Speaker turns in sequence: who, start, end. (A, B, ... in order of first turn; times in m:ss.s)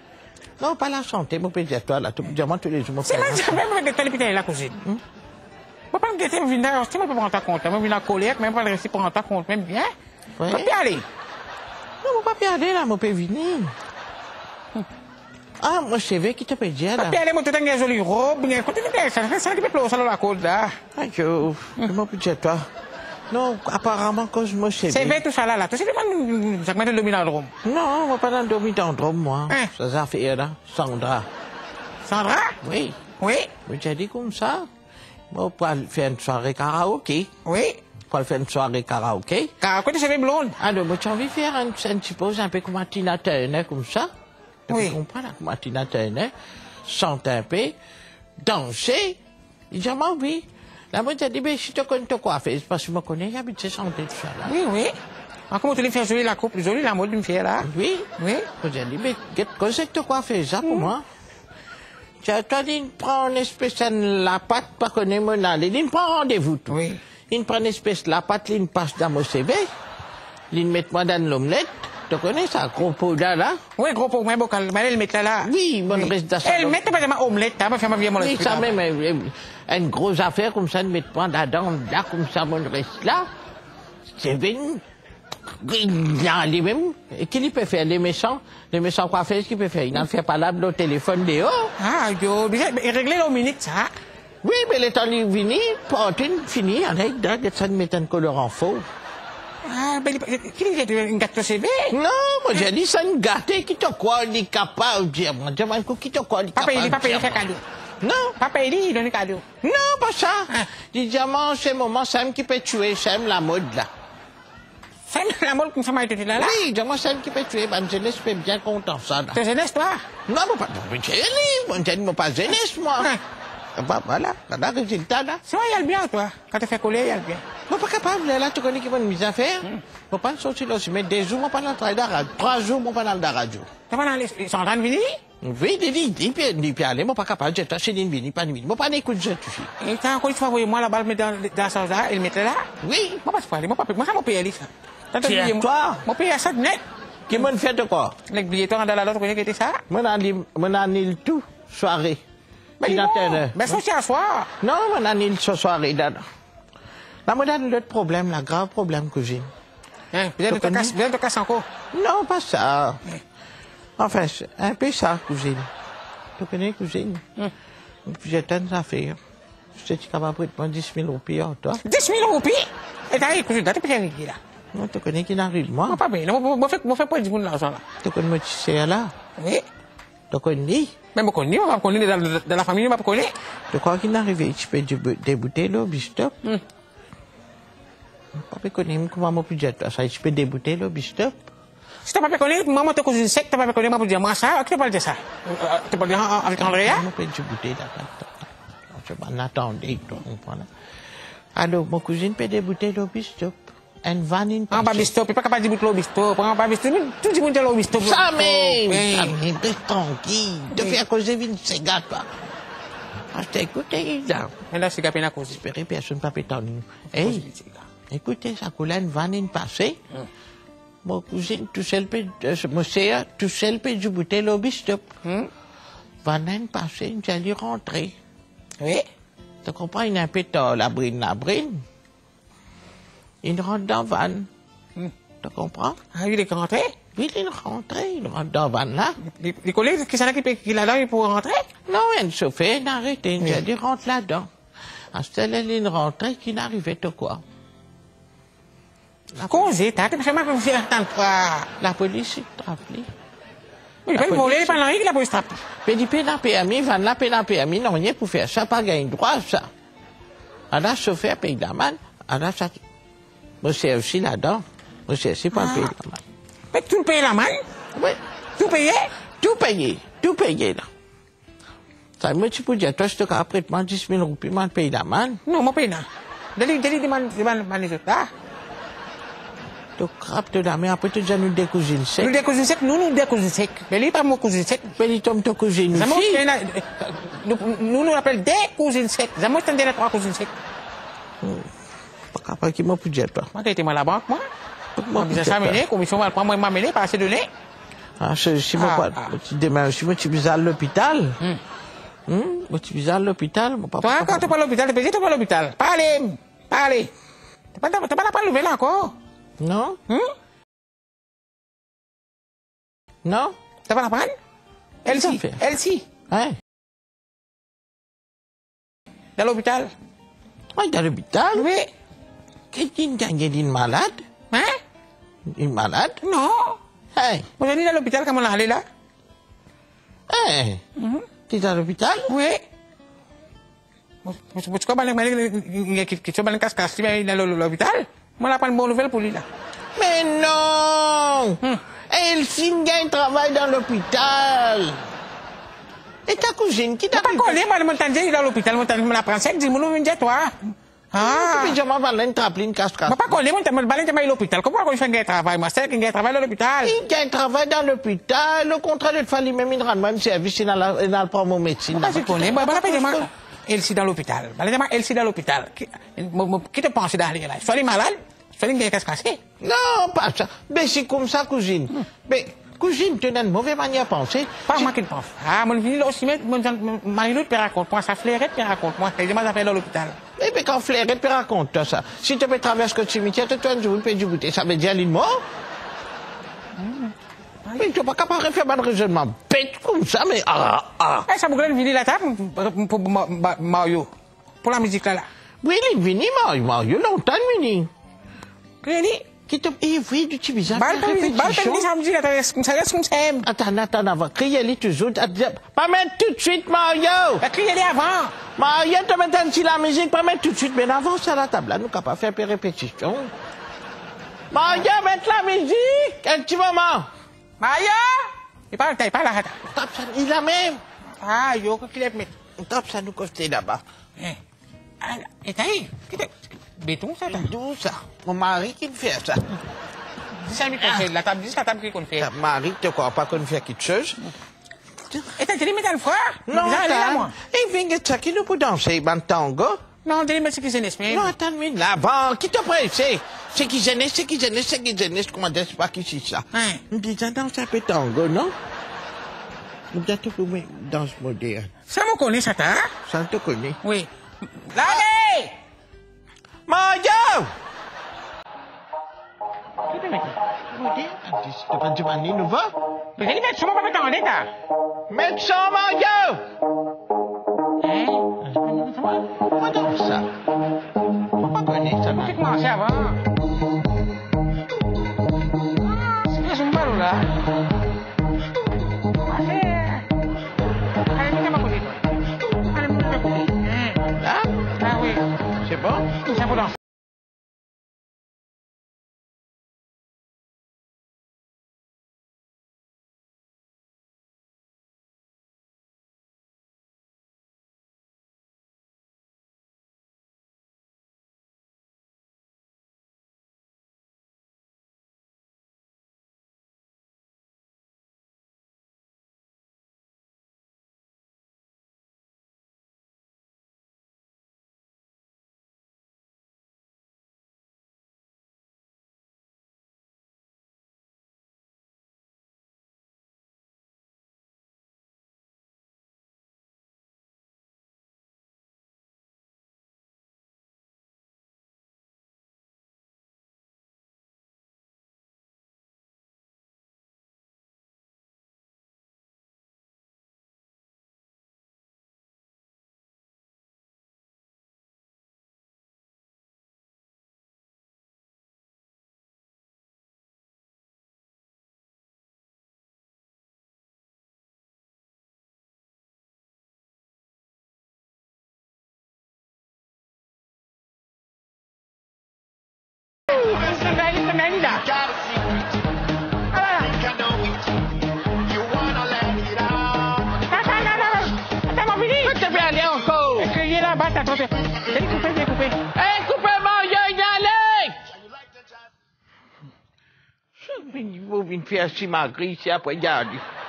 0:00.6-0:03.6 A
0:03.0-0:04.8 B
0:05.9-0:09.9 B
0:10.4-0:10.7 A
0:10.5-0:11.0 B
0:12.0-0:13.7 A
0:15.6-0:17.2 A
0:17.0-0:20.8 B
0:20.9-0:22.7 A
0:23.3-0:25.2 A
0:24.9-0:27.5 B
0:27.6-0:31.3 A
0:32.0-0:32.6 B
0:32.6-0:33.0 A
0:33.2-0:33.5 B
0:33.6-0:34.7 A
0:35.3-0:37.3 A
0:37.4-0:37.8 B
0:38.1-0:39.5 A
0:39.6-0:40.6 B
0:40.6-0:44.1 A
0:44.7-0:46.3 A
0:44.7-0:45.0 B
0:46.8-0:47.8 A
0:48.4-0:49.2 A
0:49.7-0:54.6 A
0:54.4-0:55.0 B
0:55.5-0:58.5 B
0:57.6-1:01.0 A
1:00.6-1:00.9 B
1:02.2-1:09.7 A
1:06.7-1:07.0 B
1:10.5-1:13.6 A
1:13.8-1:18.8 B
1:15.4-1:16.8 A
1:18.2-1:23.3 A
1:24.1-1:24.8 A
1:25.4-1:31.7 A
1:31.8-1:33.9 B
1:34.4-1:38.8 A
1:39.6-1:42.0 B
1:41.9-1:47.5 A
1:46.6-1:47.6 B
1:48.0-1:48.4 A
1:48.4-1:49.4 B
1:49.6-1:53.9 A
1:55.1-1:56.6 B
1:56.3-1:59.4 A
1:59.3-2:00.0 B
2:00.3-2:03.1 A
2:03.7-2:05.4 A
2:05.4-2:07.4 B
2:07.7-2:13.7 A
2:13.9-2:15.2 B
2:15.4-2:19.7 A
2:19.8-2:22.7 B
2:22.8-2:23.2 A
2:23.2-2:26.8 B
2:25.2-2:26.0 A
2:27.3-2:28.2 A
2:28.3-2:29.8 B
2:29.9-2:32.2 A
2:32.8-2:34.5 B
2:32.8-2:33.8 A
2:34.6-2:36.2 A
2:37.3-2:39.5 A
2:40.1-2:41.6 B
2:40.4-2:41.0 A
2:41.9-2:43.0 A
2:44.0-2:45.7 A
2:46.4-2:47.2 A
2:48.0-2:49.2 A
2:49.8-2:51.8 A
2:51.8-2:54.4 B
2:54.7-2:56.0 A
2:55.8-2:57.8 B
2:58.0-2:59.1 A
2:59.4-2:59.6 B
3:00.3-3:00.9 A
3:01.1-3:03.3 B
3:03.7-3:06.4 A
3:08.3-3:11.5 A
3:12.0-3:17.1 B
3:16.6-3:20.7 A
3:21.5-3:25.1 A
3:24.7-3:29.4 B
3:27.9-3:32.4 A
3:30.7-3:31.0 B
3:33.3-3:34.5 A
3:34.7-3:35.6 B
3:35.5-3:37.5 A
3:37.1-3:37.8 B
3:38.1-3:40.0 A
3:41.0-3:45.0 A
3:45.2-3:45.5 B
3:46.2-3:48.2 A
3:48.8-3:49.0 B
3:49.6-3:51.8 A
3:53.4-3:54.5 A
3:55.4-3:56.0 A
3:56.1-3:57.0 B
3:57.1-3:59.2 A
3:59.2-4:01.7 B
4:01.9-4:04.5 A
4:05.1-4:07.4 A
4:09.3-4:09.7 A
4:09.5-4:11.7 B
4:11.8-4:13.1 A
4:14.0-4:15.6 B
4:14.1-4:14.8 A
4:15.8-4:19.7 A
4:20.7-4:22.8 A
4:23.6-4:26.2 A
4:25.5-4:25.9 B
4:26.7-4:27.6 B
4:27.9-4:28.2 A
4:28.6-4:29.1 B
4:29.4-4:30.9 A
4:32.2-4:35.4 A
4:35.4-4:38.3 B
4:40.0-4:42.4 A
4:42.2-4:45.0 B
4:45.0-4:46.4 A
4:45.9-4:50.5 B
4:51.4-4:51.7 A
4:52.3-4:53.5 A
4:53.5-4:54.5 B
4:55.0-4:55.8 A
4:55.1-4:57.5 B
4:58.2-5:01.4 A
4:58.8-4:59.3 B
5:02.3-5:04.5 A
5:04.0-5:07.1 B
5:07.7-5:09.1 B
5:09.6-5:10.0 A
5:10.1-5:10.3 B
5:13.2-5:13.6 A
5:13.9-5:14.3 B
5:15.0-5:16.1 B
5:15.1-5:15.6 A
5:16.3-5:16.6 A
5:19.4-5:19.9 B
5:20.7-5:21.7 A
5:21.5-5:21.9 B
5:22.7-5:24.2 A
5:24.5-5:24.8 B
5:25.4-5:26.2 A
5:26.2-5:26.8 B
5:27.1-5:27.4 A
5:27.6-5:28.8 B
5:30.3-5:30.8 A
5:31.0-5:31.3 B
5:31.5-5:32.3 A
5:32.3-5:32.6 B
5:34.2-5:39.4 B
5:39.9-5:45.1 A
5:46.3-5:47.6 A
5:47.1-5:51.8 B
5:51.1-5:53.4 A
5:53.0-5:57.0 B
5:56.8-6:03.3 A
6:01.9-6:09.4 B
6:09.6-6:14.9 A
6:14.7-6:20.2 B
6:20.4-6:25.5 A
6:26.8-6:27.1 B
6:27.8-6:31.3 A
6:31.3-6:34.1 B
6:34.6-6:35.3 B
6:35.6-6:37.9 A
6:38.8-6:39.3 B
6:39.5-6:41.9 A
6:40.7-6:43.5 B
6:43.4-6:47.4 A
6:47.4-6:48.4 B
6:48.5-6:53.3 A
6:54.5-6:57.1 A
6:57.6-6:59.6 B
6:59.6-7:00.8 A
7:01.2-7:02.3 B
7:02.6-7:03.8 A
7:05.0-7:07.5 B
7:07.3-7:09.6 A
7:10.4-7:12.3 B
7:10.7-7:11.1 A
7:12.2-7:14.2 A
7:15.3-7:17.3 B
7:16.5-7:19.8 A
7:20.0-7:21.3 B
7:21.1-7:28.6 A
7:26.5-7:26.8 B
7:29.9-7:31.7 A
7:31.9-7:32.9 B
7:33.0-7:33.8 A
7:33.8-7:34.1 B
7:34.6-7:35.6 B
7:36.7-7:37.5 A
7:39.9-7:40.4 B
7:40.7-7:42.7 A
7:43.2-7:44.5 B
7:45.1-7:46.5 A
7:47.8-7:49.4 B
7:49.4-7:50.3 A
7:51.4-7:52.5 A
7:52.2-7:53.2 B
7:56.1-7:57.3 B
7:59.3-8:00.1 B
8:01.1-8:04.0 B
8:04.2-8:04.7 A
8:04.8-8:05.3 B
8:05.6-8:06.1 A
8:06.2-8:06.8 B
9:23.3-9:24.9 B
9:25.0-9:25.4 A
9:26.5-9:27.1 B
9:27.0-9:27.6 A
9:28.4-9:30.4 A
9:30.4-9:32.4 B
9:32.2-9:33.6 A
9:33.3-9:35.8 B
9:35.9-9:38.2 A
9:40.6-9:43.4 A